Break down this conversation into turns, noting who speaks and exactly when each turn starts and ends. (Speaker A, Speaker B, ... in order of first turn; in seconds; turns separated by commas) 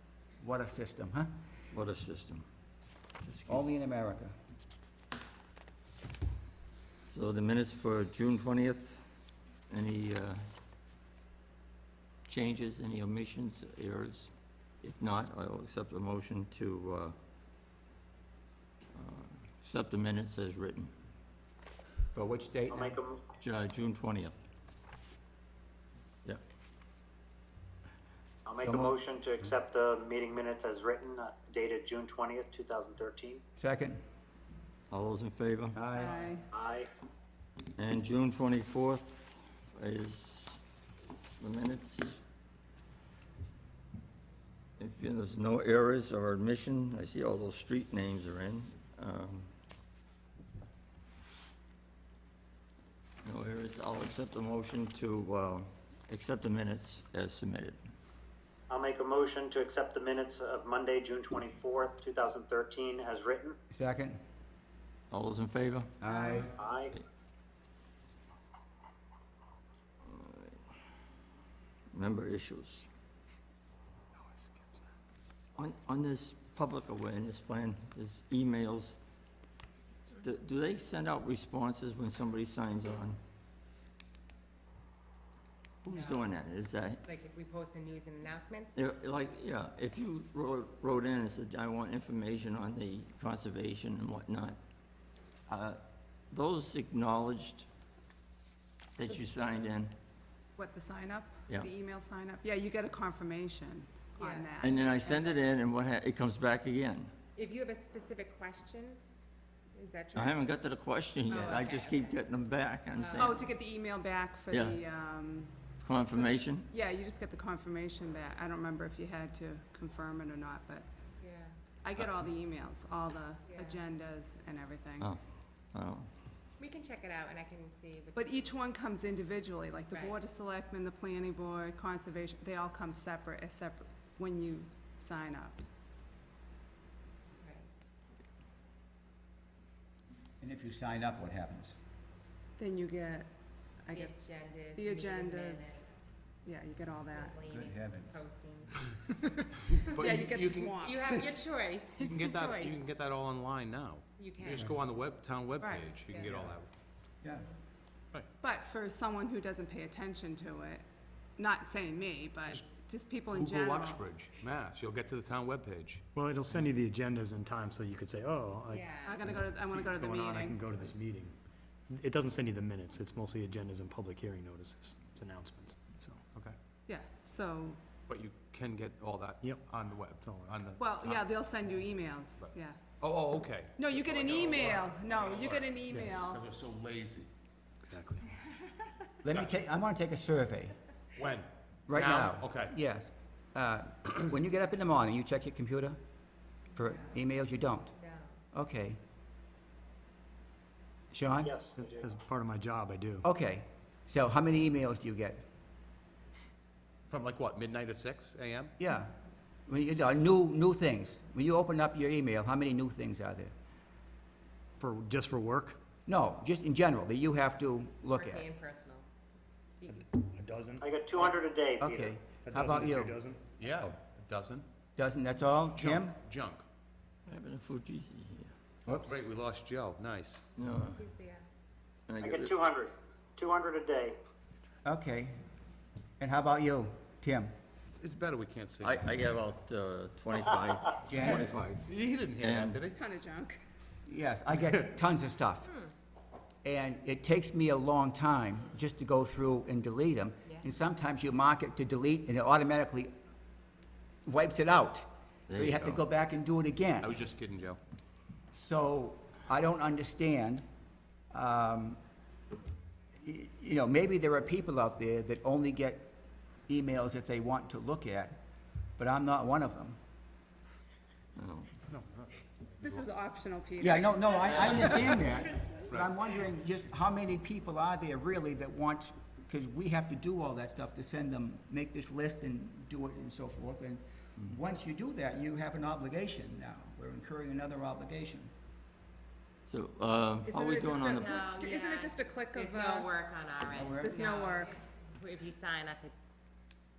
Speaker A: 0.4-1.3, Speaker B: 1.7-2.5, Speaker B: 3.2-3.7, Speaker A: 3.5-4.3, Speaker B: 7.1-9.0, Speaker B: 9.7-10.4, Speaker B: 12.3-17.2, Speaker B: 18.9-20.9, Speaker A: 22.1-23.0, Speaker C: 22.7-23.2, Speaker B: 23.4-24.4, Speaker C: 28.5-33.4, Speaker A: 28.6-29.0, Speaker A: 33.6-34.0, Speaker B: 34.9-35.8, Speaker A: 35.8-36.4, Speaker D: 35.9-36.5, Speaker C: 36.5-36.9, Speaker B: 37.8-40.6, Speaker B: 41.4-42.2, Speaker B: 44.8-49.5, Speaker B: 53.2-57.8, Speaker C: 58.7-63.6, Speaker A: 63.7-64.2, Speaker B: 65.1-66.0, Speaker A: 66.0-66.5, Speaker D: 66.1-66.5, Speaker C: 66.6-66.9, Speaker B: 70.1-70.6, Speaker B: 71.9-72.9, Speaker B: 75.6-79.0, Speaker B: 80.2-83.2, Speaker B: 85.8-87.1, Speaker E: 85.9-86.3, Speaker E: 87.0-88.8, Speaker B: 88.8-94.6, Speaker B: 95.5-97.7, Speaker B: 99.0-99.9, Speaker D: 100.6-105.4, Speaker E: 104.2-104.5, Speaker B: 104.6-107.1, Speaker E: 107.4-109.0, Speaker E: 109.8-110.4, Speaker B: 110.1-113.5, Speaker E: 111.3-112.2, Speaker E: 113.0-113.5, Speaker D: 113.2-115.5, Speaker B: 114.5-114.8, Speaker B: 115.8-116.7, Speaker D: 116.7-120.9, Speaker E: 121.2-121.6, Speaker D: 121.8-125.1, Speaker E: 123.5-123.8, Speaker B: 125.7-126.1, Speaker E: 126.6-128.5, Speaker D: 128.2-135.6, Speaker E: 129.9-130.2, Speaker E: 137.4-137.7, Speaker A: 140.4-141.8, Speaker D: 142.6-143.3, Speaker D: 143.8-144.1, Speaker E: 143.9-145.8, Speaker D: 144.8-145.8, Speaker D: 146.4-147.3, Speaker E: 147.1-148.8, Speaker A: 147.4-148.2, Speaker F: 149.7-150.8, Speaker E: 150.0-150.2, Speaker D: 150.1-151.2, Speaker E: 150.8-152.8, Speaker F: 152.0-156.7, Speaker E: 154.2-154.7, Speaker D: 155.6-155.9, Speaker E: 156.1-156.4, Speaker A: 156.1-156.6, Speaker D: 158.4-160.8, Speaker D: 161.4-164.0, Speaker F: 163.3-166.6, Speaker G: 166.2-171.4, Speaker E: 168.7-169.3, Speaker D: 168.9-170.6, Speaker G: 171.9-176.2, Speaker D: 176.9-177.8, Speaker F: 178.1-181.3, Speaker G: 180.2-180.5, Speaker D: 180.8-182.8, Speaker F: 182.4-187.2, Speaker D: 183.8-186.5, Speaker G: 185.9-186.3, Speaker G: 187.8-188.3, Speaker A: 189.2-190.8, Speaker F: 191.2-192.7, Speaker A: 191.9-196.0, Speaker A: 196.8-197.9, Speaker E: 197.9-198.4, Speaker A: 198.5-199.0, Speaker A: 201.1-201.6, Speaker C: 201.4-202.0, Speaker G: 201.8-203.2, Speaker A: 203.2-205.4, Speaker F: 207.1-208.7, Speaker A: 208.8-209.2, Speaker A: 209.7-213.5, Speaker G: 214.8-215.8, Speaker A: 216.1-218.5, Speaker E: 218.1-219.1, Speaker E: 219.8-220.2, Speaker G: 220.3-220.9, Speaker C: 220.8-222.1, Speaker A: 221.8-223.2, Speaker G: 222.4-223.9, Speaker F: 223.6-224.7, Speaker A: 225.0-226.2, Speaker F: 225.8-226.6, Speaker B: 227.3-228.5, Speaker F: 229.0-230.4, Speaker B: 230.6-231.0, Speaker E: 231.0-231.4, Speaker B: 232.1-232.6, Speaker C: 232.2-234.2, Speaker A: 234.8-235.3, Speaker A: 236.2-237.5, Speaker F: 237.9-239.0, Speaker B: 238.8-242.8, Speaker A: 241.1-241.5, Speaker F: 241.8-243.0, Speaker D: 242.9-243.6, Speaker A: 244.1-245.7, Speaker A: 246.6-253.1, Speaker A: 254.3-257.2, Speaker B: 255.5-256.0, Speaker F: 257.0-257.8, Speaker A: 258.5-260.6, Speaker A: 261.3-262.0, Speaker A: 263.2-266.1, Speaker A: 266.7-268.4, Speaker A: 269.0-270.0, Speaker B: 271.4-271.7, Speaker G: 271.9-272.3, Speaker D: 272.8-275.0, Speaker F: 272.8-273.1, Speaker A: 273.8-288.5, Speaker F: 274.4-275.2, Speaker B: 289.7-291.5, Speaker D: 290.5-293.1, Speaker E: 290.9-296.3, Speaker A: 293.7-294.2, Speaker D: 294.0-294.7